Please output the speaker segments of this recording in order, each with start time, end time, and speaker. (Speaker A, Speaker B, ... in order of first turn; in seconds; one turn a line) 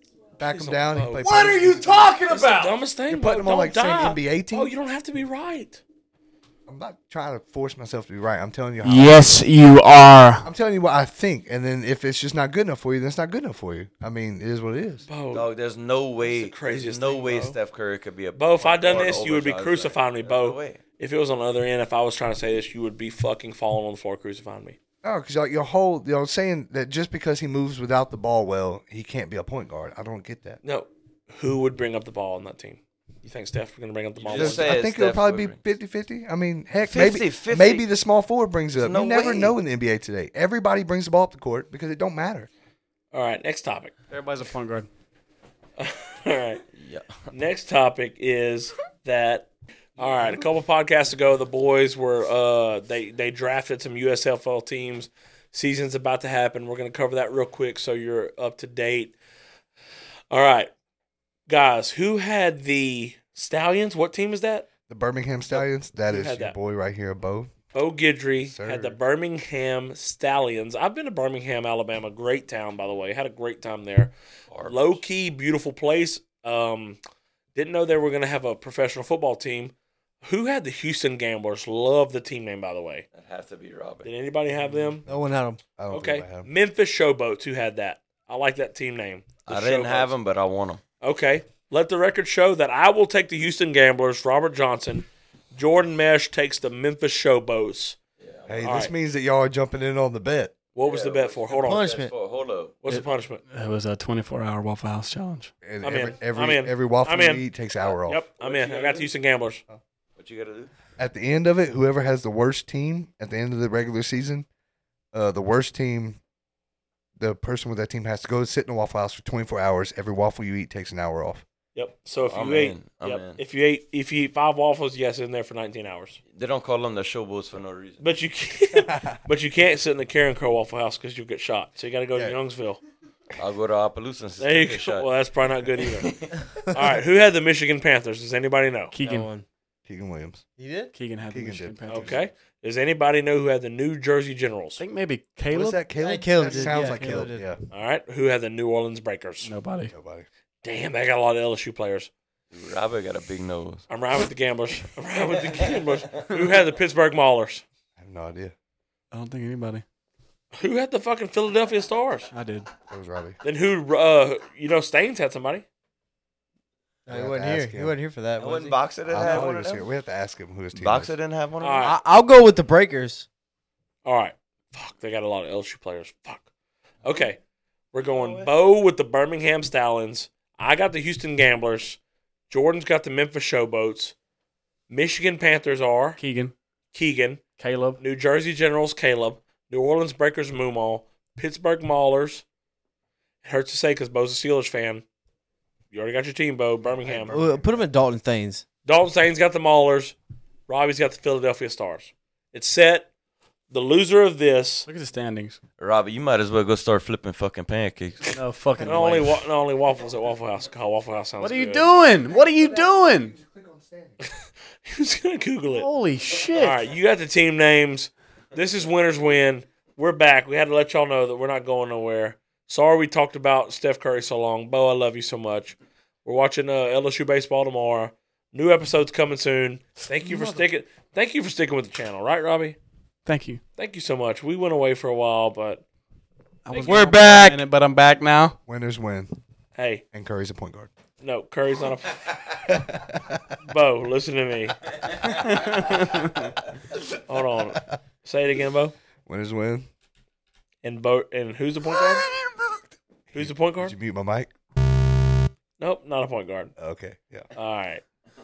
Speaker A: 0.4-2.2
Speaker B: 0.5-1.2
Speaker C: 1.2-2.7
Speaker B: 2.3-5.8
Speaker A: 3.1-4.7
Speaker A: 6.7-9.5
Speaker C: 8.8-10.5
Speaker A: 10.4-15.1
Speaker B: 15.1-15.5
Speaker D: 15.3-20.8
Speaker B: 16.2-17.6
Speaker B: 18.4-24.8
Speaker A: 25.0-30.6
Speaker B: 30.6-34.8
Speaker D: 34.2-35.6
Speaker A: 34.3-42.5
Speaker D: 36.9-37.9
Speaker D: 38.8-39.6
Speaker B: 43.1-43.9
Speaker C: 44.1-44.9
Speaker B: 45.8-46.6
Speaker D: 46.7-47.2
Speaker B: 47.3-59.1
Speaker B: 60.3-60.7
Speaker B: 61.5-64.7
Speaker A: 64.9-67.5
Speaker B: 65.5-66.6
Speaker B: 67.7-74.1
Speaker A: 68.4-69.0
Speaker D: 74.5-75.0
Speaker B: 74.7-77.0
Speaker B: 77.5-83.1
Speaker D: 83.1-84.1
Speaker B: 84.0-85.0
Speaker D: 84.7-84.9
Speaker E: 85.1-85.6
Speaker A: 85.1-86.5
Speaker B: 85.9-90.1
Speaker D: 89.5-90.8
Speaker B: 91.0-98.0
Speaker D: 98.2-98.9
Speaker A: 98.5-100.5
Speaker B: 98.7-98.9
Speaker B: 100.8-102.0
Speaker D: 100.8-102.8
Speaker E: 101.7-102.1
Speaker B: 102.8-103.4
Speaker C: 102.9-105.5
Speaker A: 105.6-108.2
Speaker B: 105.8-107.5
Speaker D: 107.8-109.1
Speaker B: 108.1-109.6
Speaker D: 110.2-110.7
Speaker A: 111.0-114.5
Speaker A: 115.1-116.2
Speaker A: 117.2-121.5
Speaker B: 121.8-126.2
Speaker D: 122.2-123.4
Speaker D: 126.3-128.0
Speaker B: 128.0-132.8
Speaker A: 128.7-129.2
Speaker D: 133.4-135.1
Speaker B: 134.4-138.9
Speaker D: 135.8-136.3
Speaker C: 138.9-139.3
Speaker E: 139.0-139.4
Speaker A: 139.9-140.4
Speaker E: 140.6-140.9
Speaker C: 140.9-142.2
Speaker A: 141.3-142.1
Speaker B: 141.9-144.8
Speaker C: 144.8-145.8
Speaker A: 145.5-147.6
Speaker E: 146.0-147.4
Speaker C: 146.4-147.5
Speaker B: 147.7-149.5
Speaker C: 149.4-149.9
Speaker A: 149.9-150.3
Speaker B: 150.6-152.1
Speaker D: 152.5-153.8
Speaker B: 153.9-157.6
Speaker D: 155.2-156.6
Speaker A: 158.0-158.5
Speaker C: 159.1-159.8
Speaker B: 160.6-162.3
Speaker C: 162.3-162.7
Speaker A: 162.9-163.4
Speaker B: 163.4-165.7
Speaker E: 167.1-169.4
Speaker A: 167.1-168.0
Speaker D: 168.4-169.9
Speaker A: 169.1-171.1
Speaker D: 170.8-171.9
Speaker B: 171.6-171.9
Speaker E: 171.8-173.3
Speaker B: 174.1-176.5
Speaker B: 177.0-177.4
Speaker D: 177.1-177.3
Speaker B: 177.9-182.0
Speaker D: 178.1-178.5
Speaker B: 182.5-184.1
Speaker B: 184.9-186.2
Speaker C: 186.2-186.5
Speaker B: 186.9-187.4
Speaker C: 187.6-188.0
Speaker B: 188.0-192.4
Speaker B: 193.4-195.0
Speaker B: 195.9-197.3
Speaker D: 197.1-197.3
Speaker A: 197.1-197.8
Speaker E: 197.3-198.6
Speaker B: 198.9-200.2
Speaker B: 200.7-203.1
Speaker B: 203.7-204.9
Speaker C: 204.9-205.6
Speaker D: 205.8-208.4
Speaker C: 208.3-209.4
Speaker B: 208.8-211.8
Speaker C: 211.4-213.3
Speaker A: 212.1-214.2
Speaker B: 214.2-215.9
Speaker C: 215.7-216.8
Speaker B: 216.6-232.8
Speaker A: 230.2-230.6
Speaker C: 233.3-233.6
Speaker B: 233.8-235.8
Speaker C: 236.7-238.6
Speaker B: 236.7-237.2
Speaker E: 236.9-237.6
Speaker A: 238.7-239.3
Speaker B: 239.8-240.0
Speaker A: 240.1-240.9
Speaker B: 241.2-242.6
Speaker A: 242.7-243.4
Speaker B: 243.6-244.8
Speaker C: 245.3-246.5
Speaker B: 247.3-248.9
Speaker A: 249.3-249.9
Speaker B: 250.8-252.3
Speaker B: 253.3-253.9
Speaker A: 253.3-254.5
Speaker B: 255.8-256.7
Speaker A: 256.8-257.5
Speaker B: 257.6-258.0